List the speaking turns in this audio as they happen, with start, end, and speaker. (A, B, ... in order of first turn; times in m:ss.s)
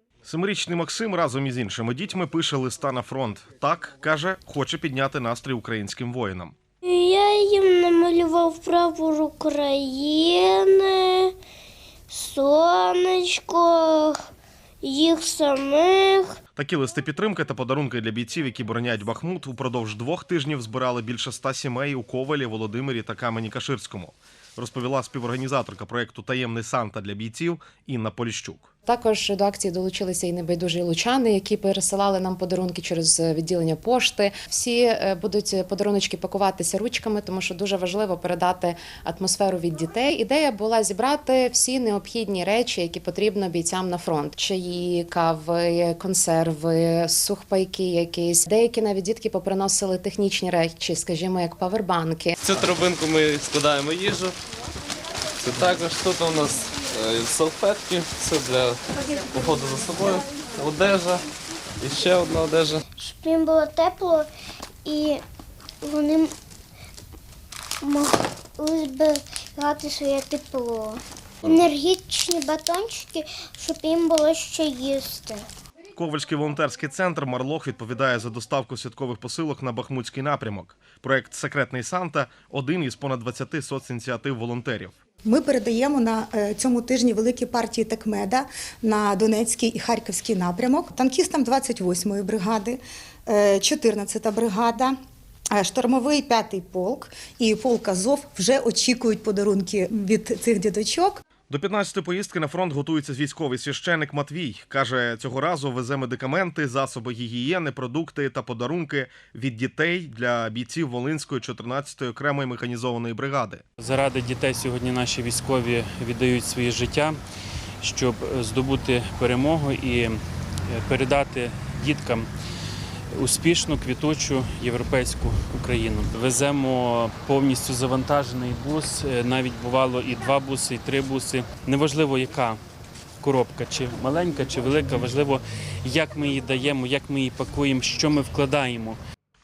0:00.2-0:06.5 A
0:06.8-0:11.3 B
0:12.1-0:14.2 B
0:14.8-0:16.3 B
0:16.5-0:28.7 A
0:28.8-0:52.4 C
0:52.4-0:54.3 D
0:55.4-1:01.2 D
1:01.8-1:02.8 D
1:03.0-1:04.3 B
1:04.8-1:05.2 B
1:05.8-1:06.3 B
1:07.8-1:15.4 B
1:16.0-1:24.9 A
1:25.2-1:34.9 E
1:35.5-1:41.2 E
1:41.5-1:53.6 A
1:53.8-1:57.2 F
1:57.8-2:02.3 F
2:03.1-2:12.6 F
2:13.2-2:19.0 F